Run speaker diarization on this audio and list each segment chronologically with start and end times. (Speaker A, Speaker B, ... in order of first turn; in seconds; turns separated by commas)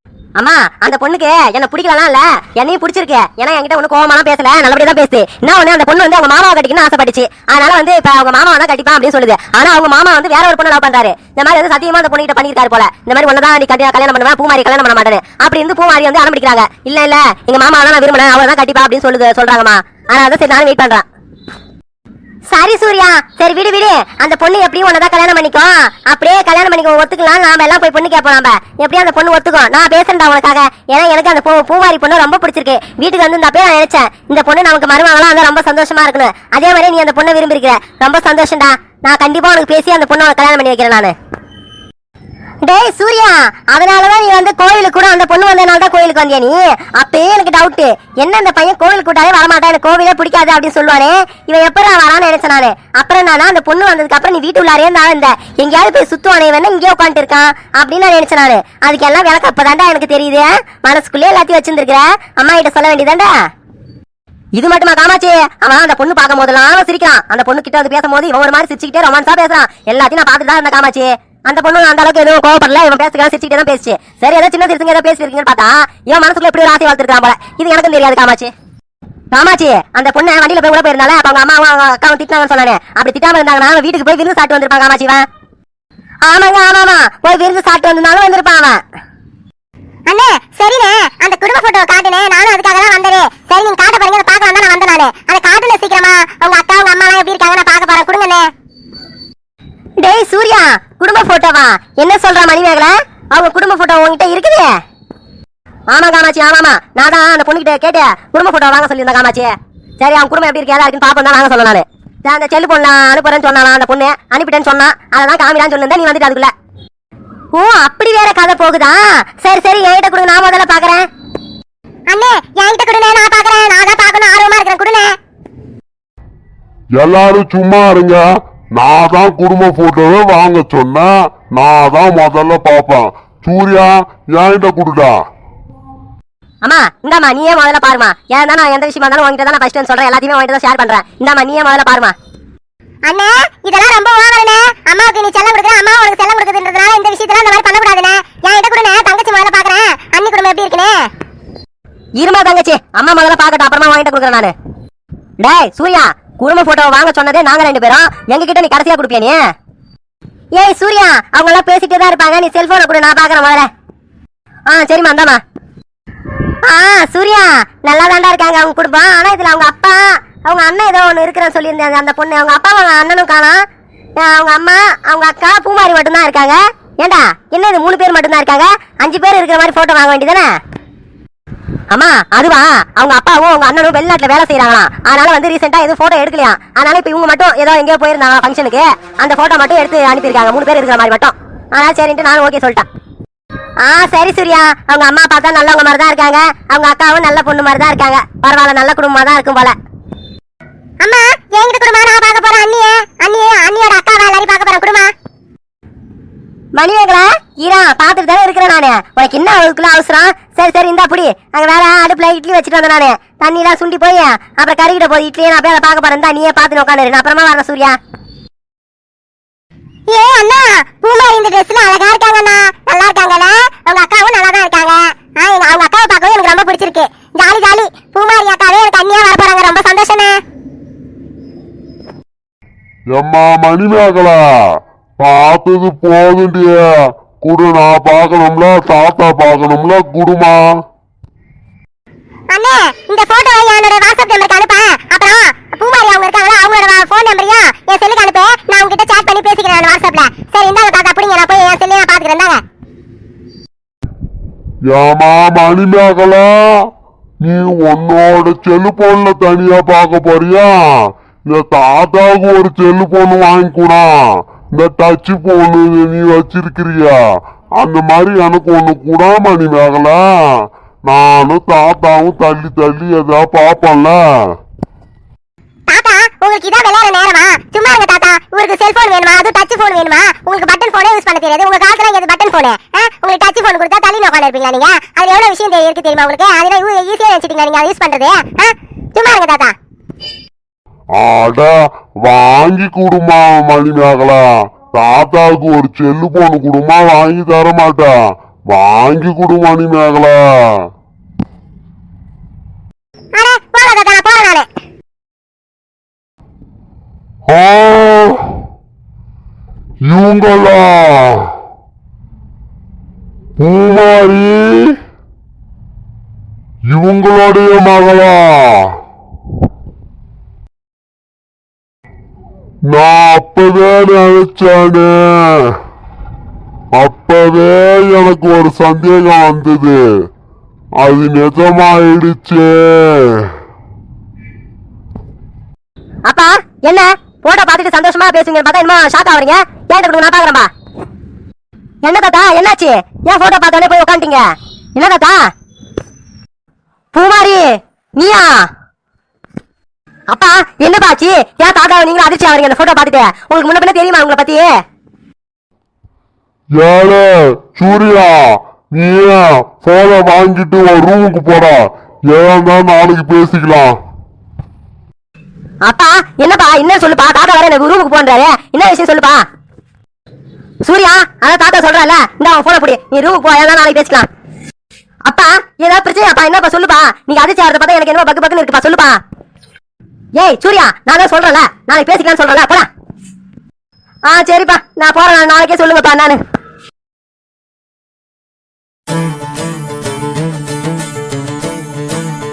Speaker A: 0.4-21.0, Speaker A: 22.5-41.1, Speaker A: 42.6-63.3, Speaker A: 64.6-78.5, Speaker A: 79.3-85.2, Speaker A: 86.2-88.8, Speaker B: 90.1-98.5, Speaker A: 100.0-104.7, Speaker A: 105.9-116.5, Speaker A: 117.5-121.1, Speaker B: 122.1-125.1, Speaker C: 127.0-135.2, Speaker A: 136.6-142.1, Speaker B: 143.1-151.1, Speaker A: 152.2-154.5, Speaker A: 155.4-159.4, Speaker A: 160.6-163.7, Speaker A: 164.7-165.4, Speaker A: 166.7-173.6, Speaker A: 174.2-180.5, Speaker A: 181.9-192.8, Speaker A: 193.8-199.7, Speaker B: 201.0-205.1, Speaker A: 206.8-218.0, Speaker B: 220.1-230.4, Speaker C: 233.1-234.5, Speaker C: 235.2-240.8, Speaker B: 242.5-252.6, Speaker C: 254.8-256.9, Speaker C: 257.4-267.2, Speaker C: 267.8-274.4, Speaker B: 275.9-289.7, Speaker C: 291.1-298.2, Speaker C: 298.7-300.8, Speaker B: 303.4-304.7, Speaker C: 307.4-308.5, Speaker C: 310.0-311.5, Speaker C: 313.6-315.0, Speaker C: 316.9-318.9, Speaker C: 322.9-325.8, Speaker C: 326.9-330.0, Speaker C: 331.0-333.5, Speaker A: 336.2-340.7, Speaker A: 342.0-345.5, Speaker A: 347.1-348.7, Speaker A: 350.3-354.7, Speaker C: 356.7-364.0, Speaker A: 365.8-369.4, Speaker A: 370.8-374.3, Speaker A: 375.2-379.2, Speaker A: 380.4-382.9, Speaker A: 384.3-386.4